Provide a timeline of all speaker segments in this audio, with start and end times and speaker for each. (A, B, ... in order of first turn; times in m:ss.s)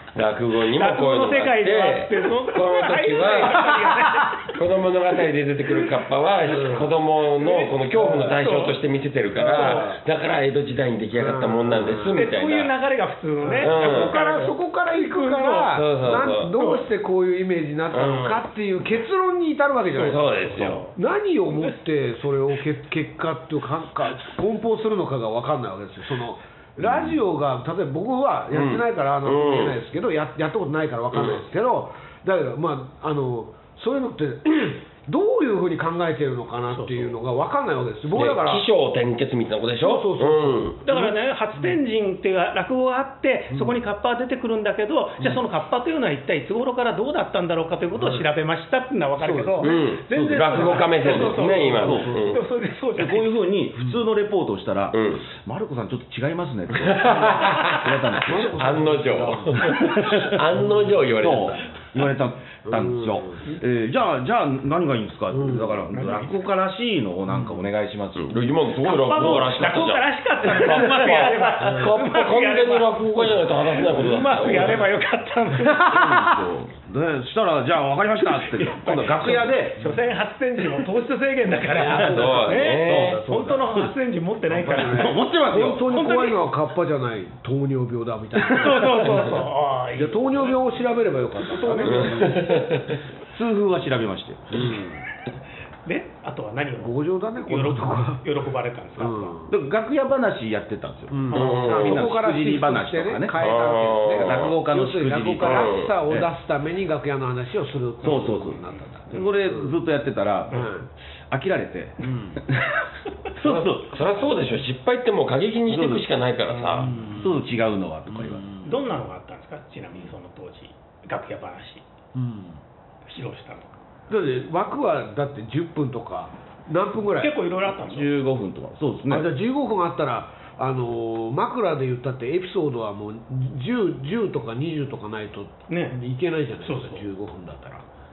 0:00.2-0:03.9 A
0:00.7-0:04.6 B
0:04.4-0:12.7 A
0:06.5-0:06.9 C
0:07.4-0:08.8 B
0:09.4-0:10.0 C
0:09.5-0:09.9 B
0:11.2-0:12.2 C
0:12.1-0:15.8 B
0:13.4-0:38.7 C
0:13.6-0:14.2 A
0:15.7-0:16.6 A
0:16.6-0:16.8 B
0:17.9-0:18.4 A
0:19.9-0:20.8 A
0:20.3-0:21.0 B
0:28.5-0:29.8 A
0:31.1-0:31.4 A
0:36.7-0:37.2 B
0:38.1-0:40.8 A
0:39.8-0:41.8 C
0:40.8-0:53.4 B
0:43.5-0:43.8 C
0:49.2-0:49.9 C
0:49.6-0:52.4 A
0:50.1-0:52.1 D
0:50.5-0:52.4 C
0:53.0-0:58.6 D
0:54.9-0:55.3 A
0:56.8-1:01.7 A
0:57.2-0:57.6 C
0:58.3-0:59.8 C
0:59.6-1:00.4 D
1:01.2-1:08.4 D
1:02.7-1:03.4 C
1:05.3-1:05.8 C
1:05.9-1:06.4 B
1:08.2-1:14.9 A
1:08.8-1:16.4 B
1:10.6-1:11.2 D
1:11.6-1:11.9 C
1:15.8-1:19.8 D
1:18.5-1:25.2 B
1:21.7-1:23.7 C
1:21.8-1:23.9 D
1:21.9-1:23.2 A
1:24.5-1:29.4 C
1:24.8-1:26.2 D
1:25.9-1:26.4 B
1:28.4-1:29.3 D
1:28.5-1:30.6 B
1:30.0-1:32.8 C
1:31.6-1:32.2 D
1:31.6-1:32.0 B
1:31.8-1:33.0 A
1:33.3-1:34.8 D
1:34.5-1:35.0 C
1:35.9-1:39.3 B
1:36.8-1:38.2 C
1:39.0-1:39.5 C
1:39.5-1:43.6 D
1:41.1-1:49.8 C
1:41.3-1:41.8 B
1:41.3-1:42.1 A
1:43.4-1:44.5 A
1:44.1-1:46.3 D
1:45.4-1:45.9 A
1:48.0-1:54.0 D
1:50.5-1:50.9 C
1:52.0-1:52.4 C
1:53.4-1:56.9 A
1:55.7-1:56.1 D
1:56.8-1:57.4 C
1:57.0-1:58.5 D
1:58.1-1:58.8 C
1:58.6-2:01.8 B
2:02.2-2:02.6 C
2:03.1-2:03.7 B
2:04.1-2:07.4 C
2:07.2-2:08.1 B
2:07.8-2:09.3 D
2:09.1-2:17.8 C
2:15.7-2:16.0 B
2:16.6-2:17.0 B